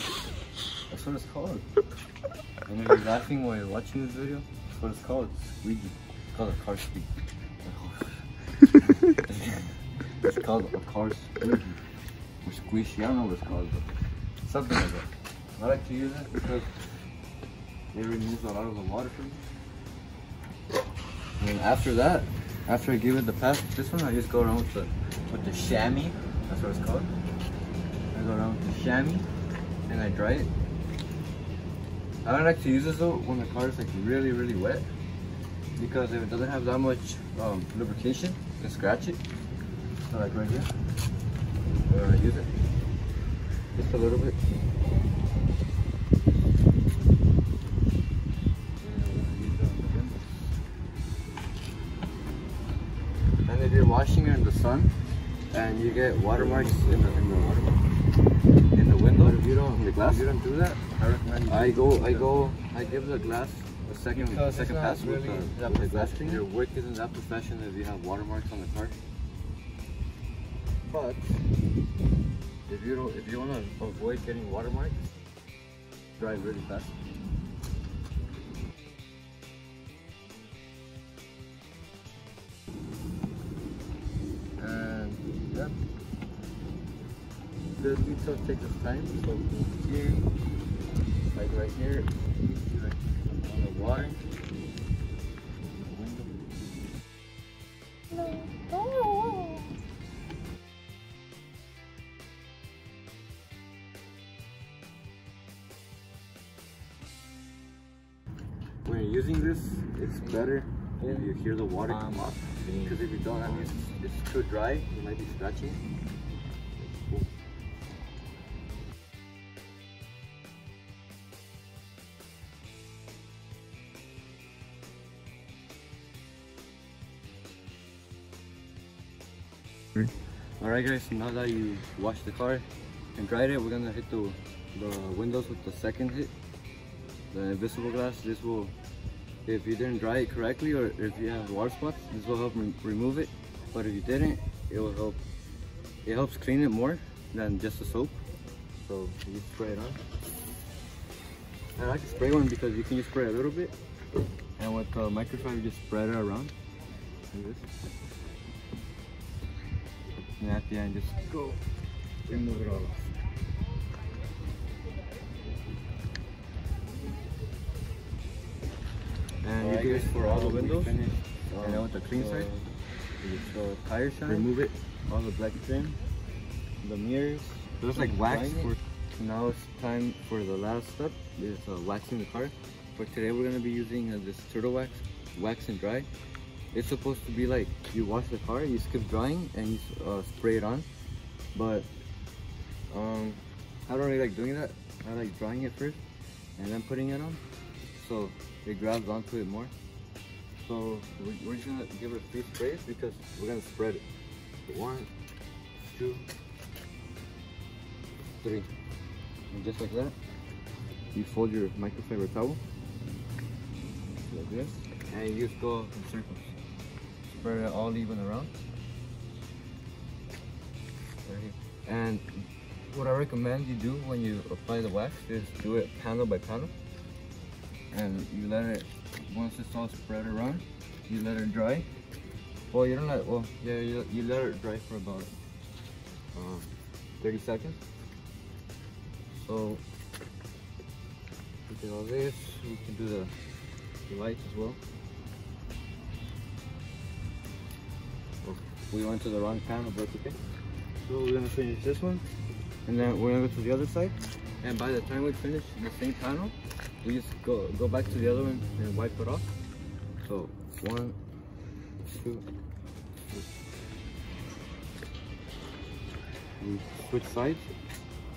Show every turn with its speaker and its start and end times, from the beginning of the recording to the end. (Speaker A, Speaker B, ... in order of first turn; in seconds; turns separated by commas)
Speaker A: 0.9-1.6, Speaker A: 2.7-7.1, Speaker A: 7.6-11.8, Speaker A: 12.4-13.9, Speaker A: 14.4-15.1, Speaker A: 15.6-16.7, Speaker A: 17.9-19.4, Speaker A: 21.4-27.1, Speaker A: 28.1-29.2, Speaker A: 29.9-30.5, Speaker A: 32.2-34.9, Speaker A: 35.8-39.2, Speaker A: 40.1-40.7, Speaker A: 41.9-42.5, Speaker A: 43.7-44.4, Speaker A: 48.8-50.2, Speaker A: 53.5-54.9, Speaker A: 55.5-57.8, Speaker B: 56.3-57.6, Speaker A: 58.7-60.8, Speaker B: 59.1-62.5, Speaker A: 61.5-68.9, Speaker B: 64.0-66.5, Speaker A: 70.9-71.4, Speaker A: 72.7-75.0, Speaker A: 76.2-76.9, Speaker A: 84.6-85.7, Speaker A: 87.7-90.2, Speaker A: 91.3-94.2, Speaker A: 95.8-96.3, Speaker A: 108.8-115.8, Speaker B: 110.2-113.9, Speaker A: 116.8-117.2, Speaker A: 129.9-136.3, Speaker A: 137.3-138.7, Speaker A: 139.4-145.2, Speaker A: 146.0-148.2, Speaker A: 148.8-150.0, Speaker A: 151.8-153.7, Speaker A: 154.6-156.5, Speaker A: 157.3-157.7, Speaker A: 160.4-161.6, Speaker A: 162.2-163.1, Speaker A: 169.4-171.0, Speaker B: 169.6-172.6, Speaker A: 171.6-172.5, Speaker A: 173.2-174.5, Speaker B: 174.2-174.7, Speaker A: 175.1-176.0, Speaker A: 176.8-186.1, Speaker B: 177.9-178.8, Speaker A: 186.7-190.9, Speaker A: 191.5-191.9, Speaker A: 192.9-196.0, Speaker A: 196.6-197.4, Speaker A: 197.9-199.7, Speaker A: 200.6-204.0, Speaker A: 204.7-205.1, Speaker A: 205.8-206.2, Speaker A: 208.4-208.7, Speaker A: 209.5-210.1, Speaker A: 211.1-212.6, Speaker A: 214.3-216.5, Speaker A: 217.3-218.5, Speaker A: 221.2-226.7, Speaker A: 227.9-231.9, Speaker A: 232.7-235.3, Speaker A: 236.3-236.7, Speaker A: 237.2-237.8, Speaker A: 239.3-239.8, Speaker A: 241.7-243.3, Speaker A: 244.1-244.8, Speaker A: 248.4-250.4, Speaker A: 251.0-252.2, Speaker A: 252.8-259.4, Speaker A: 260.2-261.1, Speaker A: 262.0-262.4, Speaker A: 266.6-267.7